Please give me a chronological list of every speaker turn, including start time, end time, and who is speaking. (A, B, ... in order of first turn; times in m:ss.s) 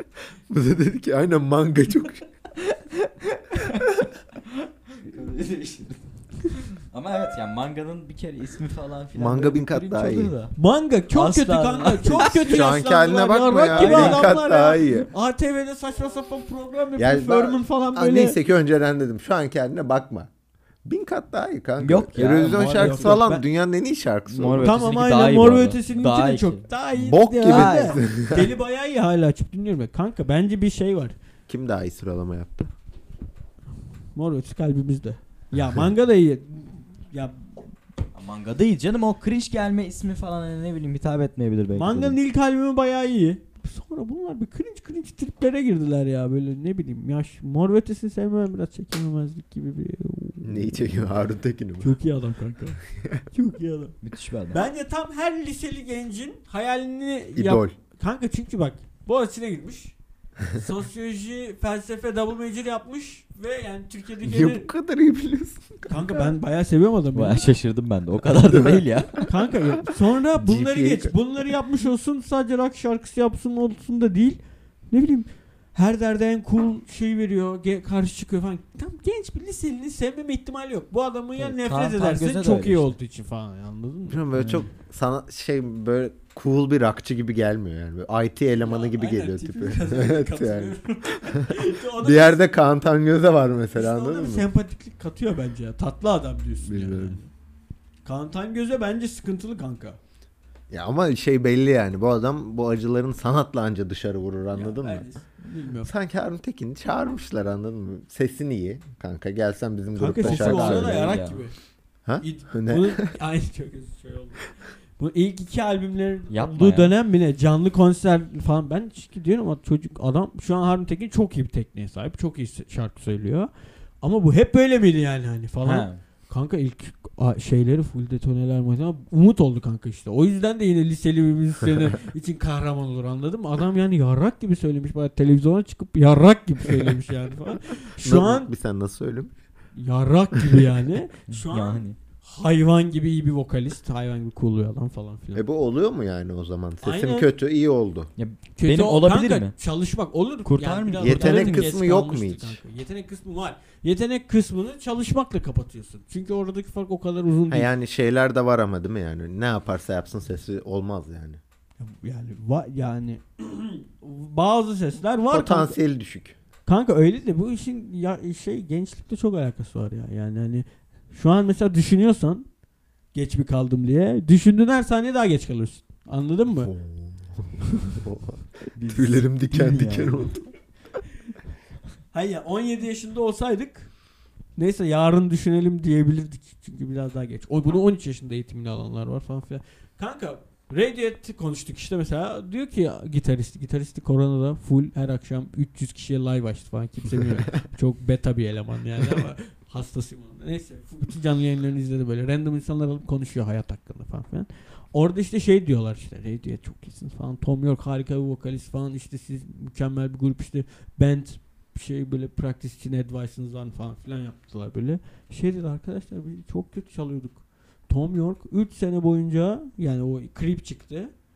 0:00.5-0:02.2 A
0:02.6-0:10.5 B
0:09.1-0:10.3 A
0:10.5-0:18.4 C
0:11.1-0:12.6 B
0:12.2-0:15.1 A
0:13.7-0:14.3 B
0:17.0-0:20.3 A
0:20.8-0:24.7 A
0:21.8-0:23.2 B
0:22.8-0:23.4 C
0:24.3-0:26.6 B
0:24.6-0:31.1 C
0:27.0-0:28.5 A
0:27.4-0:28.0 B
0:31.5-0:32.7 A
0:34.1-0:37.7 C
0:38.1-0:42.2 B
0:41.7-0:51.0 C
0:50.4-0:51.9 A
0:51.8-0:53.9 C
0:54.0-0:54.6 B
0:54.5-0:59.9 C
0:57.3-0:57.7 A
1:00.5-1:04.7 C
1:04.2-1:06.1 A
1:05.9-1:07.5 C
1:07.1-1:09.3 B
1:08.5-1:08.8 A
1:09.2-1:24.3 C
1:10.4-1:11.1 A
1:21.4-1:22.9 B
1:24.1-1:34.4 A
1:28.6-1:32.5 C
1:33.7-1:37.3 C
1:36.6-1:37.2 A
1:38.0-1:40.0 C
1:40.7-1:45.0 A
1:44.5-1:45.9 C
1:45.8-1:51.1 A
1:50.0-1:51.5 C
1:50.2-1:51.4 B
1:52.0-1:53.1 A
1:52.2-2:18.5 C
1:56.3-1:56.9 B
2:05.6-2:06.0 B
2:18.0-2:19.3 A
2:19.7-2:25.4 C
2:21.3-2:22.0 B
2:25.3-2:28.1 A
2:26.8-2:27.3 C
2:28.2-2:29.5 B
2:28.6-2:37.7 C
2:30.4-2:31.8 B
2:31.0-2:32.6 A
2:37.5-2:41.4 A
2:41.8-2:45.8 C
2:45.3-2:46.4 A
2:46.6-2:52.5 C
2:53.1-2:56.7 C
2:56.5-3:00.5 A
2:58.7-3:00.3 B
3:02.1-3:03.9 C
3:04.5-3:41.1 C